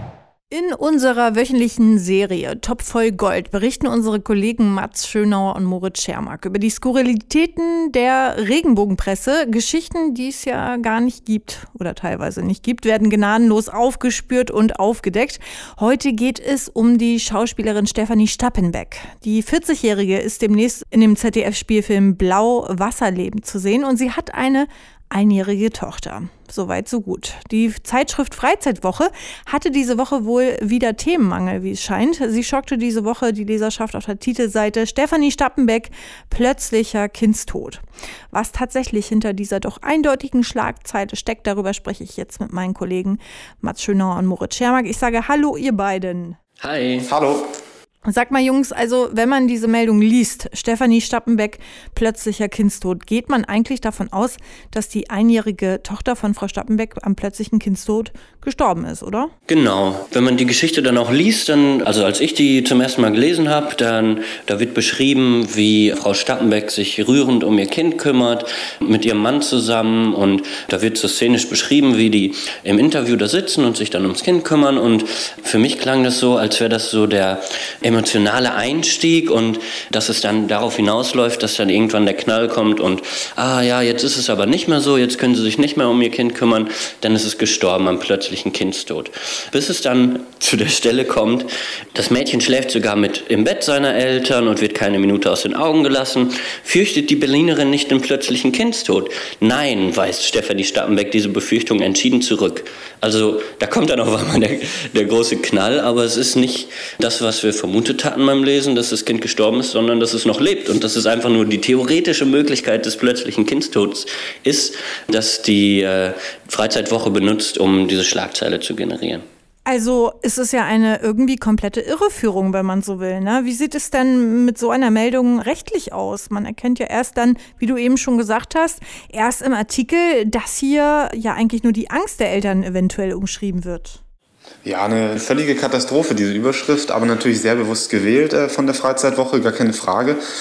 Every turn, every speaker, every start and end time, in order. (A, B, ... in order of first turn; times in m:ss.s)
0:00.5-0:46.4 A
0:46.6-0:47.1 B
0:47.1-0:47.5 C
0:48.0-0:59.3 A
0:59.5-1:59.2 B
1:59.7-2:14.0 A
2:14.6-2:20.2 C